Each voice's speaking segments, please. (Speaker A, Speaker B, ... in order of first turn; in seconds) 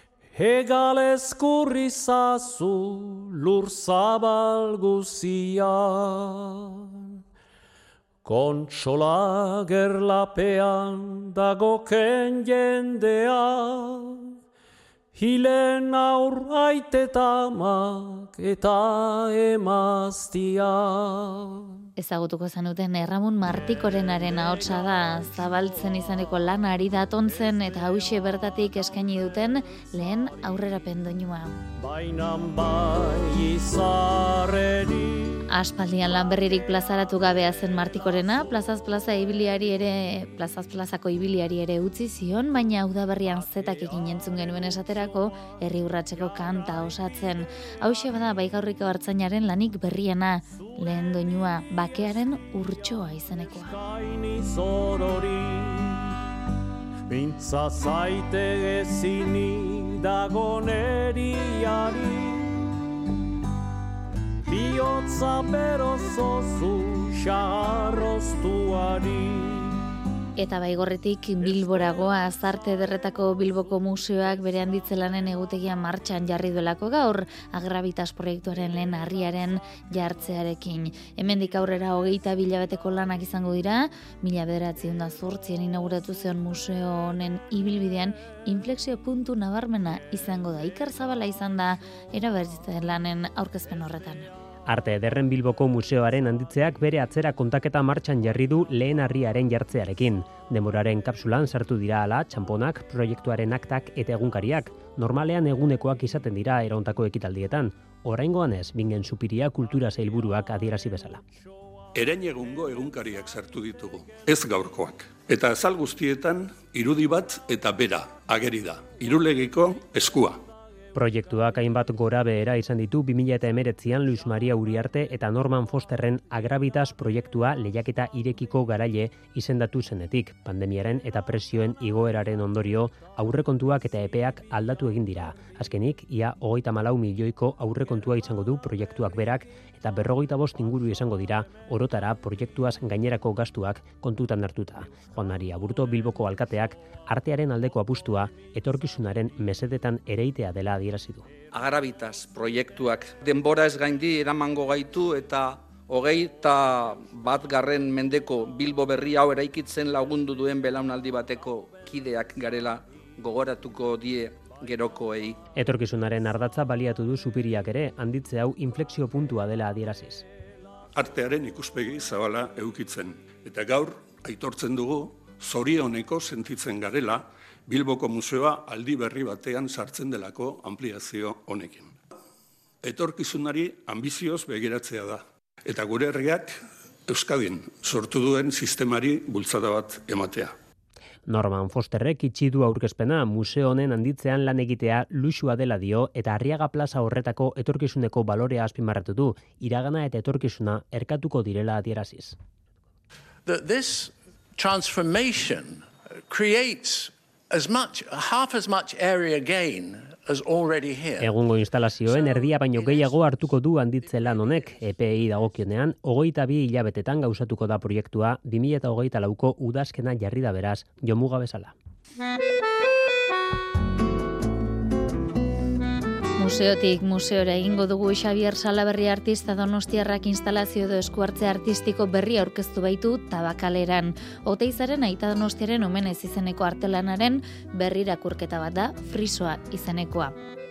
Speaker A: 0.3-7.2, 8.2-14.3, 15.1-21.8, 24.0-25.3, 31.8-35.4, 53.7-56.1, 57.1-62.5, 64.5-69.8
Speaker B: 21.9-31.6, 35.5-53.7, 70.3-94.3, 226.4-240.3
Speaker C: 94.7-111.2, 120.9-151.3, 165.5-170.2, 191.3-202.3, 211.2-221.7
Speaker D: 111.9-120.4, 170.9-181.9, 182.8-190.5
Speaker E: 151.5-165.4
Speaker F: 203.4-211.3